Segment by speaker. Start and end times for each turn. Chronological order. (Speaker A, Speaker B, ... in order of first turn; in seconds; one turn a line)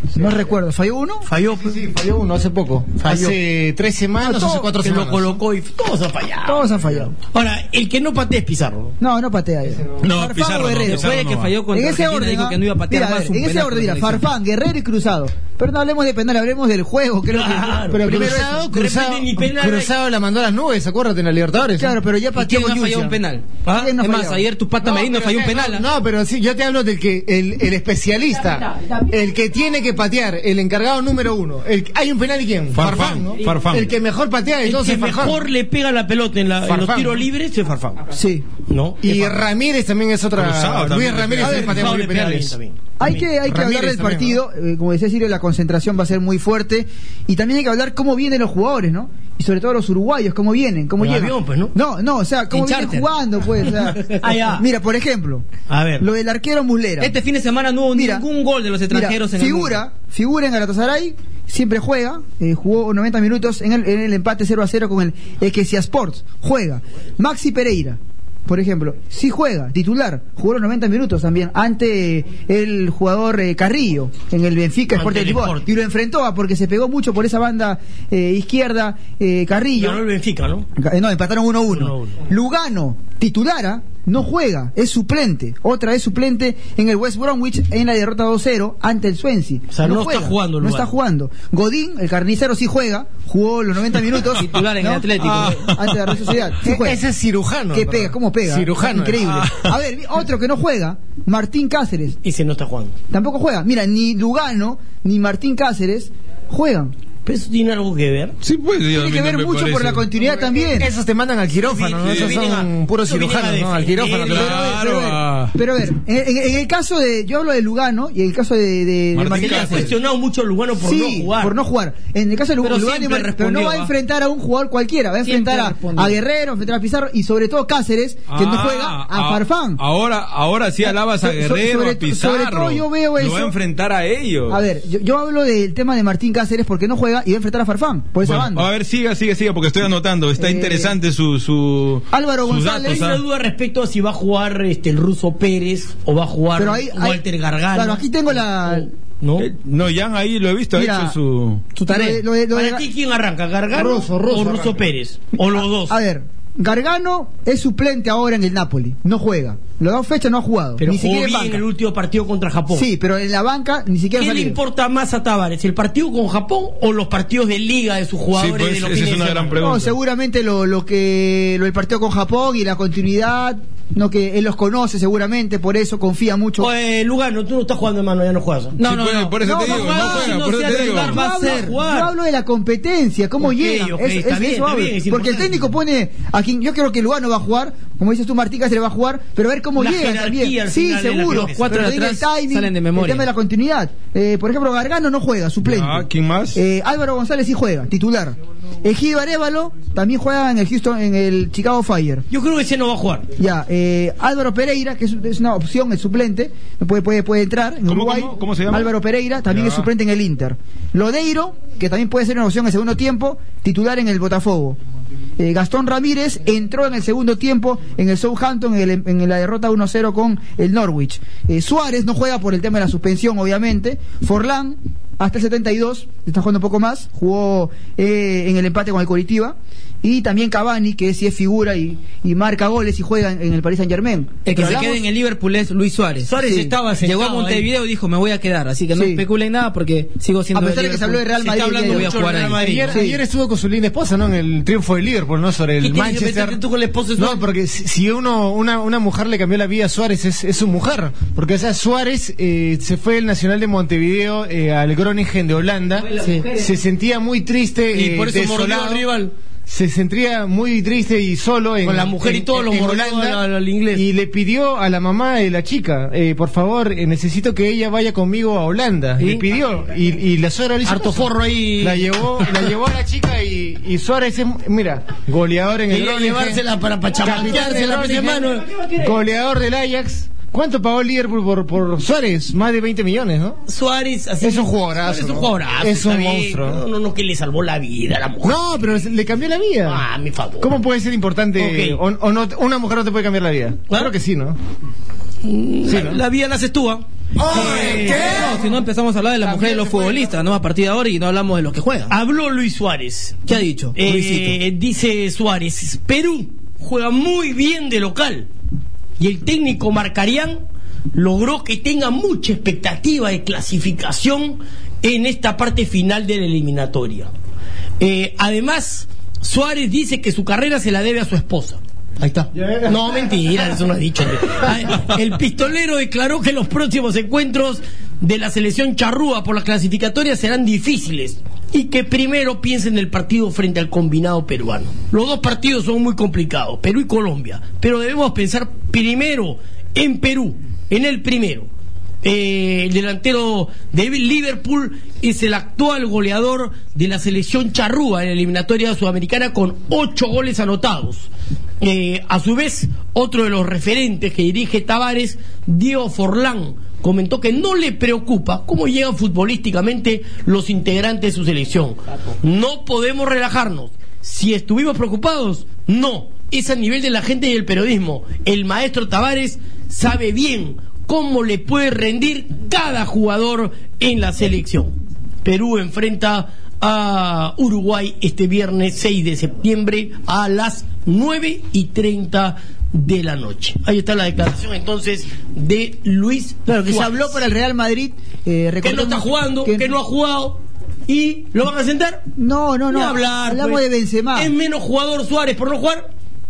Speaker A: 0.2-1.3
Speaker B: 1.3-1.8
Speaker C: 1.6-5.4
Speaker B: 3.0-3.4
Speaker A: 4.2-4.7
Speaker B: 4.8-9.0
Speaker A: 6.5-7.1
Speaker A: 9.0-11.1
Speaker D: 10.0-11.6
Speaker E: 10.9-14.3
Speaker A: 11.7-18.6
Speaker B: 17.3-19.9
Speaker C: 17.9-21.9
Speaker A: 21.8-24.4
Speaker E: 22.4-25.9
Speaker C: 24.8-35.5
Speaker D: 32.7-33.9
Speaker B: 34.6-38.0
Speaker C: 36.6-37.3
Speaker A: 38.1-38.5
Speaker B: 38.6-39.4
Speaker C: 39.0-42.6
Speaker D: 40.4-41.8
Speaker B: 41.4-43.1
Speaker A: 43.0-57.1
Speaker C: 43.1-44.4
Speaker B: 51.0-51.7
Speaker E: 52.5-53.1
Speaker B: 54.0-54.6
Speaker B: 55.7-56.1
Speaker E: 57.0-59.8
Speaker A: 57.9-58.2
Speaker A: 58.9-80.0
Speaker B: 74.9-75.7
Speaker B: 79.8-80.7
Speaker A: 80.8-97.0
Speaker B: 81.7-82.2
Speaker B: 89.7-90.9
Speaker E: 94.3-95.7
Speaker D: 95.2-96.4
Speaker C: 96.6-99.3
Speaker A: 97.7-102.2
Speaker D: 99.2-99.7
Speaker B: 102.2-103.0
Speaker A: 103.1-106.9
Speaker B: 107.2-108.3
Speaker D: 108.4-110.1
Speaker A: 108.9-110.9
Speaker C: 110.2-114.5
Speaker B: 111.6-114.6
Speaker D: 112.0-112.3
Speaker D: 114.2-115.6
Speaker A: 114.3-119.9
Speaker D: 119.1-120.0
Speaker B: 119.3-121.6
Speaker A: 120.8-129.8
Speaker E: 122.6-123.9
Speaker E: 125.2-126.2
Speaker D: 128.3-134.6
Speaker A: 130.8-133.5
Speaker A: 134.5-138.7
Speaker D: 138.2-143.2
Speaker A: 140.4-140.9
Speaker A: 142.1-143.1
Speaker B: 142.8-149.5
Speaker A: 146.6-147.2
Speaker A: 147.7-148.9
Speaker D: 149.4-151.7
Speaker A: 150.8-151.2
Speaker A: 151.8-152.8
Speaker E: 151.8-152.2
Speaker B: 152.5-156.0
Speaker C: 153.7-154.9
Speaker A: 155.5-161.6
Speaker B: 160.8-162.9
Speaker A: 162.7-164.6
Speaker B: 164.2-169.6
Speaker D: 168.3-169.9
Speaker A: 169.6-176.7
Speaker B: 176.6-178.8
Speaker E: 178.8-181.8
Speaker D: 178.8-181.2
Speaker A: 179.4-202.3
Speaker B: 180.9-182.1
Speaker B: 183.4-185.7
Speaker B: 189.8-191.9
Speaker E: 191.3-193.3
Speaker D: 195.6-196.6
Speaker B: 202.3-203.3
Speaker A: 203.4-214.8
Speaker D: 207.9-208.9
Speaker D: 209.5-209.9
Speaker A: 215.4-235.0
Speaker E: 234.5-242.9
Speaker B: 236.2-237.7
Speaker A: 236.5-236.7
Speaker A: 238.9-239.2
Speaker A: 240.5-242.1
Speaker B: 241.4-243.0
Speaker C: 242.6-246.6
Speaker A: 242.9-243.2
Speaker B: 245.8-247.5
Speaker C: 247.2-259.1
Speaker E: 256.0-256.7
Speaker B: 257.9-259.3
Speaker C: 259.7-263.4
Speaker B: 261.8-264.1
Speaker C: 263.9-276.6
Speaker B: 269.2-269.4
Speaker B: 270.9-272.8
Speaker B: 275.9-278.8
Speaker C: 277.2-283.6
Speaker B: 283.7-288.9
Speaker C: 284.4-286.8
Speaker C: 288.4-290.1
Speaker B: 289.9-290.7
Speaker C: 290.6-294.6
Speaker B: 291.6-292.0
Speaker B: 295.4-298.4
Speaker C: 295.9-296.2
Speaker C: 297.4-298.6
Speaker E: 297.6-302.1
Speaker C: 299.4-300.3
Speaker B: 302.1-308.5
Speaker E: 303.5-304.6
Speaker B: 309.2-310.6
Speaker B: 311.1-317.3
Speaker B: 318.0-341.7
Speaker B: 342.2-374.9
Speaker B: 375.4-387.4
Speaker A: 386.7-389.9
Speaker B: 388.8-392.3
Speaker A: 392.4-394.5
Speaker B: 392.9-396.1